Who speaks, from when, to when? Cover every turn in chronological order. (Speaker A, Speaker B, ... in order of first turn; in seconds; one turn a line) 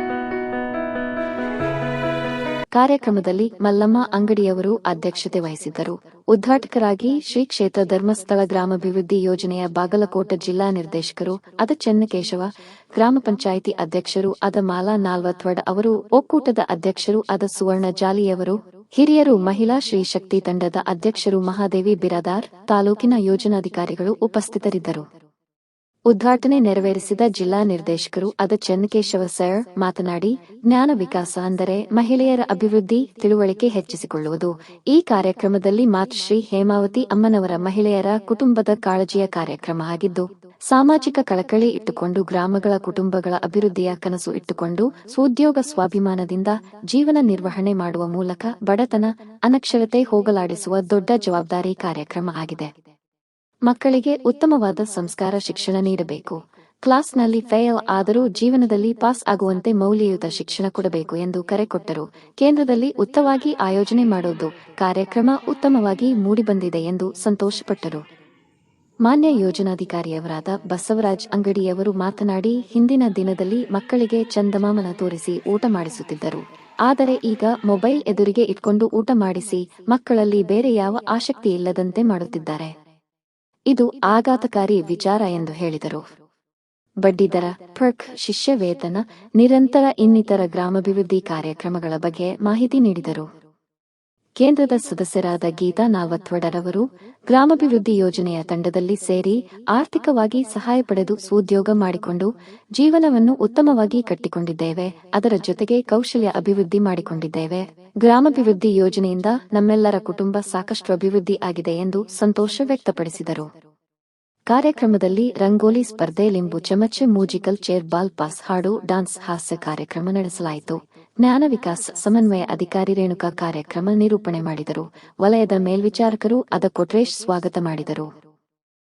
Speaker A: 2.8-25.1
Speaker A: 26.1-52.7
Speaker A: 53.7-68.0
Speaker A: 69.0-82.7
Speaker A: 83.7-86.0
Speaker A: 87.0-93.3
Speaker A: 94.4-113.5
Speaker A: 114.5-128.1